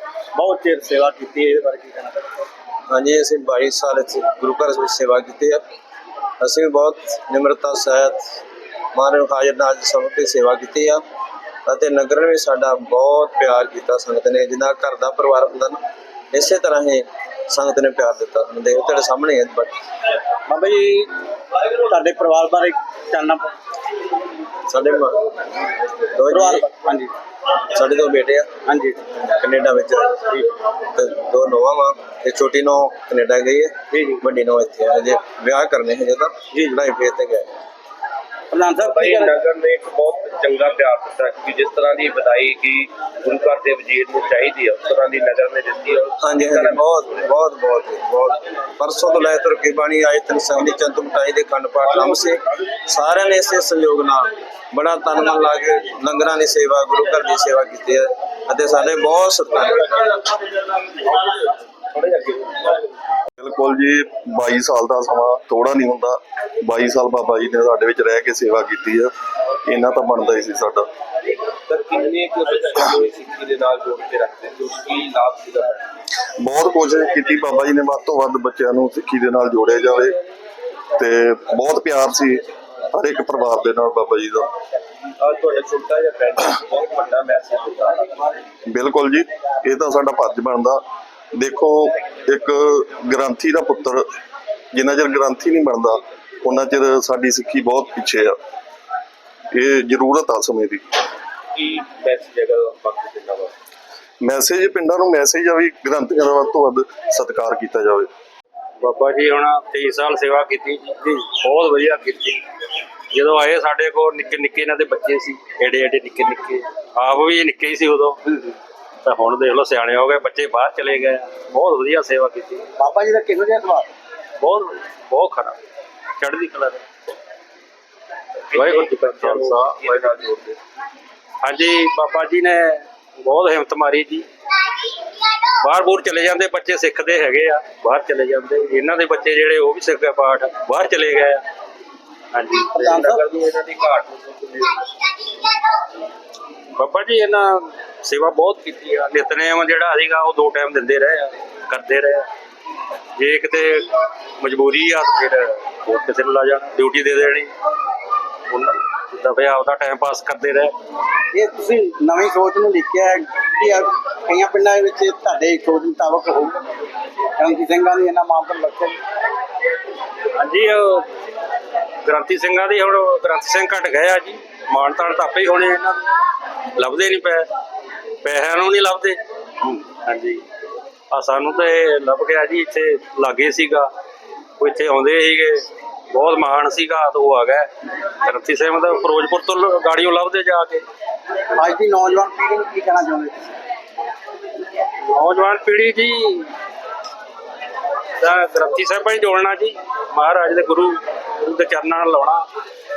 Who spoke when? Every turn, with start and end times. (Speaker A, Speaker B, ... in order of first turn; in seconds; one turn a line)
Speaker A: 0.3-2.2
Speaker B: 2.9-5.6
Speaker B: 6.4-8.4
Speaker B: 8.9-11.0
Speaker B: 11.7-15.8
Speaker B: 16.3-19.7
Speaker A: 20.5-21.1
Speaker A: 21.9-23.5
Speaker B: 24.7-25.3
Speaker B: 26.1-26.7
Speaker A: 26.3-27.1
Speaker B: 27.7-28.5
Speaker A: 28.7-29.0
Speaker B: 29.2-37.5
Speaker A: 33.9-34.2
Speaker A: 38.5-39.3
Speaker C: 38.8-46.8
Speaker B: 46.2-60.2
Speaker C: 62.0-62.7
Speaker D: 63.4-69.1
Speaker D: 69.6-70.9
Speaker C: 71.7-75.8
Speaker D: 76.4-80.2
Speaker D: 81.0-84.5
Speaker C: 85.2-88.3
Speaker D: 88.7-90.8
Speaker D: 91.3-94.1
Speaker D: 94.7-98.4
Speaker D: 99.5-100.9
Speaker C: 101.5-103.5
Speaker D: 104.2-108.1
Speaker E: 108.8-112.4
Speaker E: 113.1-122.7
Speaker A: 122.8-123.9
Speaker E: 124.4-125.6
Speaker E: 126.2-126.8
Speaker E: 128.5-130.1
Speaker C: 128.6-130.6
Speaker E: 131.4-134.3
Speaker E: 135.6-141.4
Speaker E: 142.3-142.8
Speaker C: 142.8-144.8
Speaker A: 142.8-143.2
Speaker E: 146.8-152.3
Speaker E: 153.2-157.5
Speaker E: 158.5-160.7
Speaker A: 161.3-166.7
Speaker A: 167.4-169.0
Speaker E: 170.3-171.1
Speaker E: 172.0-176.0
Speaker E: 176.8-177.5
Speaker E: 178.2-180.4
Speaker E: 181.1-183.9
Speaker E: 184.6-187.7
Speaker E: 188.2-190.8
Speaker A: 191.6-193.5
Speaker E: 195.1-196.5
Speaker E: 198.2-202.4